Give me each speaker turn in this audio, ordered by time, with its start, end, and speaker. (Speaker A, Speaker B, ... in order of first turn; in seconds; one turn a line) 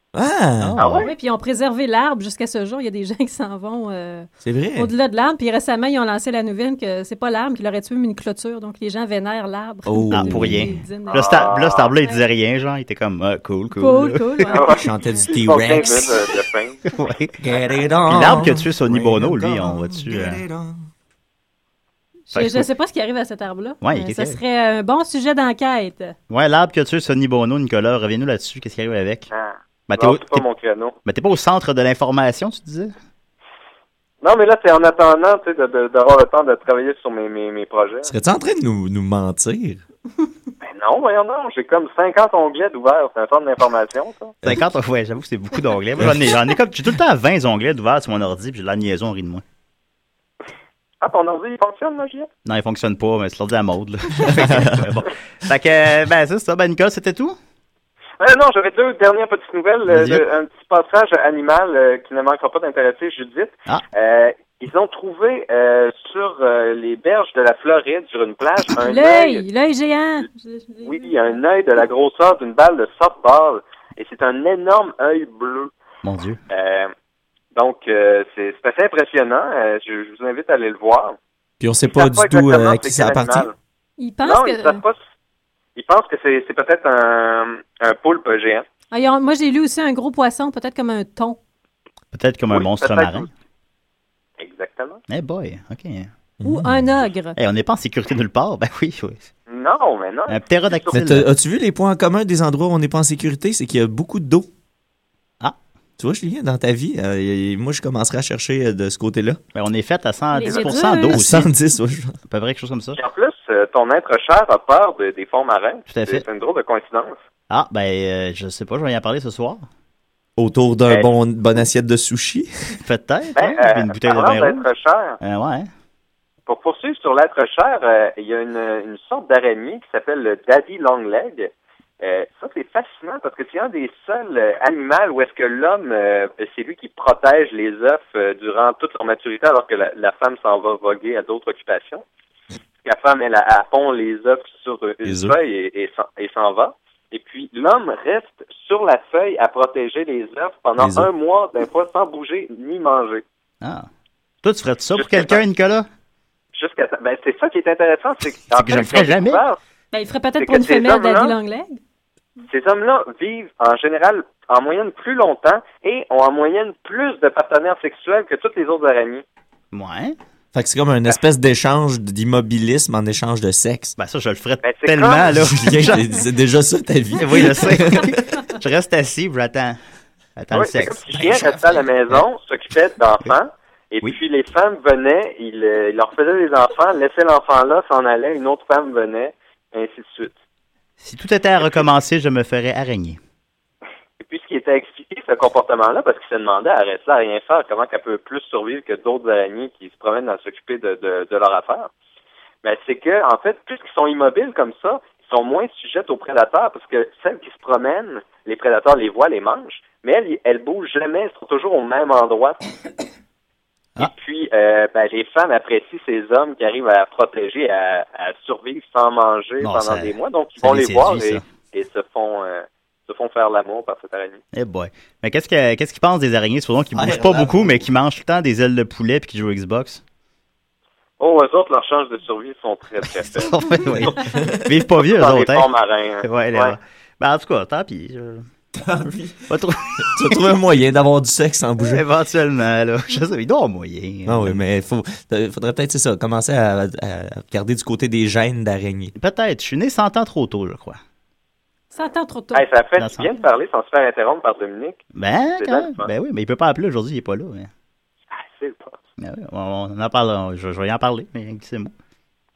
Speaker A: 0.1-1.0
Speaker B: 0.6-1.1
Speaker C: 0.8-1.1
Speaker D: 1.0-11.5
Speaker A: 4.4-4.9
Speaker A: 9.8-10.8
Speaker B: 10.1-14.5
Speaker C: 11.1-11.9
Speaker D: 13.8-16.1
Speaker C: 14.5-16.8
Speaker A: 14.7-16.1
Speaker B: 16.9-17.4
Speaker A: 17.4-20.8
Speaker B: 18.1-20.4
Speaker D: 22.3-26.1
Speaker B: 22.3-22.7
Speaker B: 23.8-24.4
Speaker B: 26.3-29.3
Speaker C: 29.3-30.9
Speaker B: 29.9-30.4
Speaker B: 31.0-32.9
Speaker C: 34.2-38.1
Speaker A: 38.0-39.8
Speaker C: 40.6-44.3
Speaker B: 44.4-49.4
Speaker C: 51.0-52.3
Speaker B: 52.4-57.4
Speaker A: 54.3-54.9
Speaker C: 58.2-69.4
Speaker B: 59.9-60.2
Speaker D: 68.7-71.4
Speaker C: 70.8-75.7
Speaker B: 76.0-76.4
Speaker C: 76.5-76.9
Speaker C: 77.5-81.2
Speaker A: 81.6-83.5
Speaker C: 81.9-83.5
Speaker D: 84.0-84.8
Speaker C: 84.2-85.0
Speaker C: 85.8-88.7
Speaker D: 88.9-91.4
Speaker B: 92.1-93.3
Speaker C: 92.5-93.3
Speaker C: 94.4-95.0
Speaker B: 95.1-96.1
Speaker A: 96.4-96.8
Speaker D: 96.4-97.3
Speaker B: 97.3-99.3
Speaker C: 99.5-101.1
Speaker B: 100.3-101.3
Speaker A: 100.9-104.5
Speaker A: 106.0-109.4
Speaker B: 109.5-111.5
Speaker D: 110.3-111.2
Speaker A: 111.1-112.2
Speaker B: 112.3-113.0
Speaker C: 113.0-117.2
Speaker B: 115.9-116.2
Speaker B: 117.5-119.7
Speaker A: 120.4-122.8
Speaker C: 120.9-121.1
Speaker B: 122.8-124.7
Speaker C: 123.3-125.2
Speaker B: 125.2-125.7
Speaker C: 126.5-142.0
Speaker C: 142.8-153.2
Speaker A: 145.0-145.4
Speaker A: 150.8-151.1
Speaker B: 153.6-153.9
Speaker B: 154.4-155.9
Speaker C: 154.9-155.4
Speaker C: 156.5-159.6
Speaker B: 158.5-159.4
Speaker D: 159.9-161.8
Speaker C: 160.4-161.3
Speaker C: 162.5-169.2
Speaker B: 169.7-170.2
Speaker A: 170.5-173.9
Speaker B: 174.0-176.1
Speaker C: 174.6-175.4
Speaker A: 175.3-178.2
Speaker B: 177.2-179.8
Speaker B: 180.4-181.3
Speaker C: 180.5-190.3
Speaker B: 191.0-193.2
Speaker C: 194.2-201.9
Speaker C: 202.6-212.6
Speaker C: 214.0-224.4
Speaker B: 219.6-221.4
Speaker B: 224.5-230.0
Speaker A: 226.9-227.8
Speaker C: 231.2-234.1
Speaker B: 233.2-235.7
Speaker A: 233.9-234.7
Speaker C: 235.0-236.8
Speaker B: 236.2-238.4
Speaker A: 238.7-242.0
Speaker B: 239.5-240.4
Speaker B: 241.8-244.6
Speaker A: 244.2-249.1
Speaker B: 249.2-251.0
Speaker D: 251.9-252.7
Speaker C: 252.5-255.0
Speaker B: 253.0-253.3
Speaker B: 255.1-257.7
Speaker C: 255.6-256.1
Speaker C: 258.3-259.0
Speaker B: 259.2-261.9